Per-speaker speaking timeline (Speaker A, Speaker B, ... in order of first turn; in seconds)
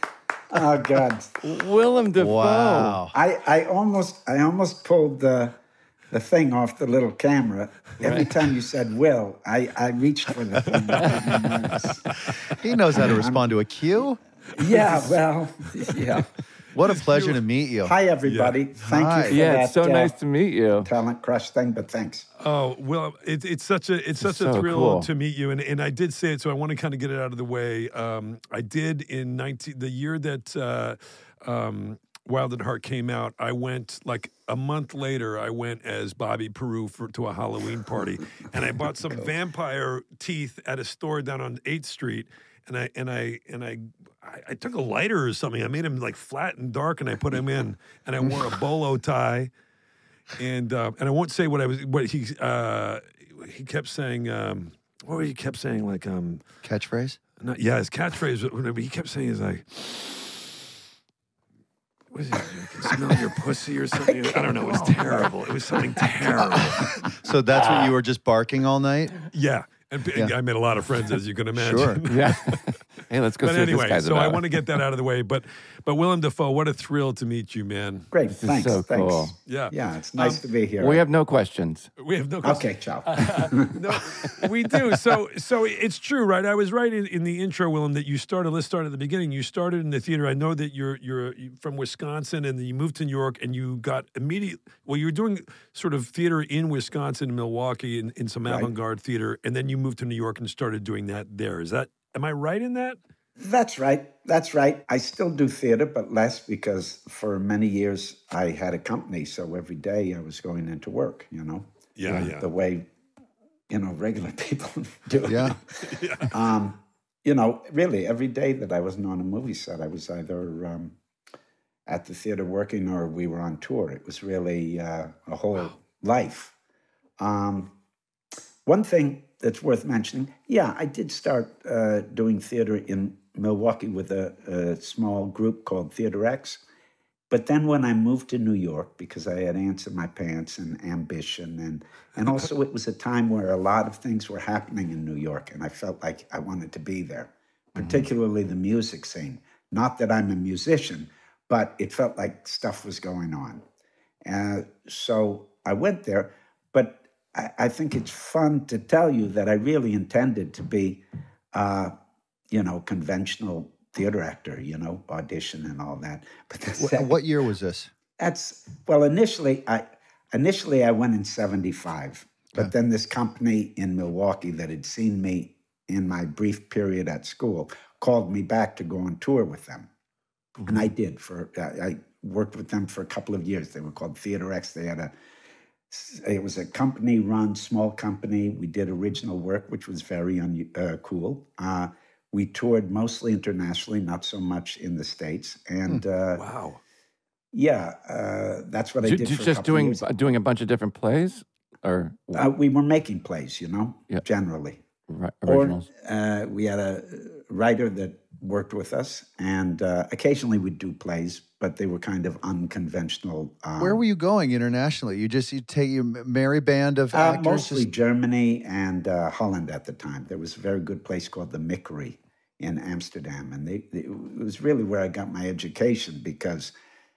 Speaker A: 0.5-1.3, 3.1-5.6, 6.1-13.4, 14.5-16.3, 17.8-20.1, 20.8-22.3, 62.9-63.1, 63.9-67.1, 78.1-81.0, 82.4-84.0, 98.5-98.7, 103.4-112.9, 113.7-115.6, 116.2-121.0, 121.9-126.5, 127.2-127.7, 128.7-136.6, 137.3-153.6, 154.2-161.9, 162.5-167.1, 168.2-179.9, 180.7-185.1, 185.9-196.4, 197.5-200.0, 202.3-204.8, 205.4-214.0, 217.1-226.7
Speaker B: 1.4-3.0, 19.3-20.9, 24.2-25.1, 72.1-74.6, 78.3-79.3, 80.8-81.9, 199.0-202.5, 205.1-205.8
Speaker C: 2.2-3.1, 12.6-14.2, 16.7-17.9, 18.8-19.4, 56.6-57.2, 67.0-69.2, 71.5-72.0, 115.2-115.6, 166.8-167.9, 213.8-217.9
Speaker D: 11.0-12.3, 14.6-15.2, 16.8-17.4, 18.2-18.6, 22.4-49.5, 50.4-56.4, 57.4-60.5, 62.1-67.1, 69.3-72.8, 73.4-78.1, 79.5-80.4, 82.0-103.0, 112.0-112.5, 115.8-116.4, 196.3-196.8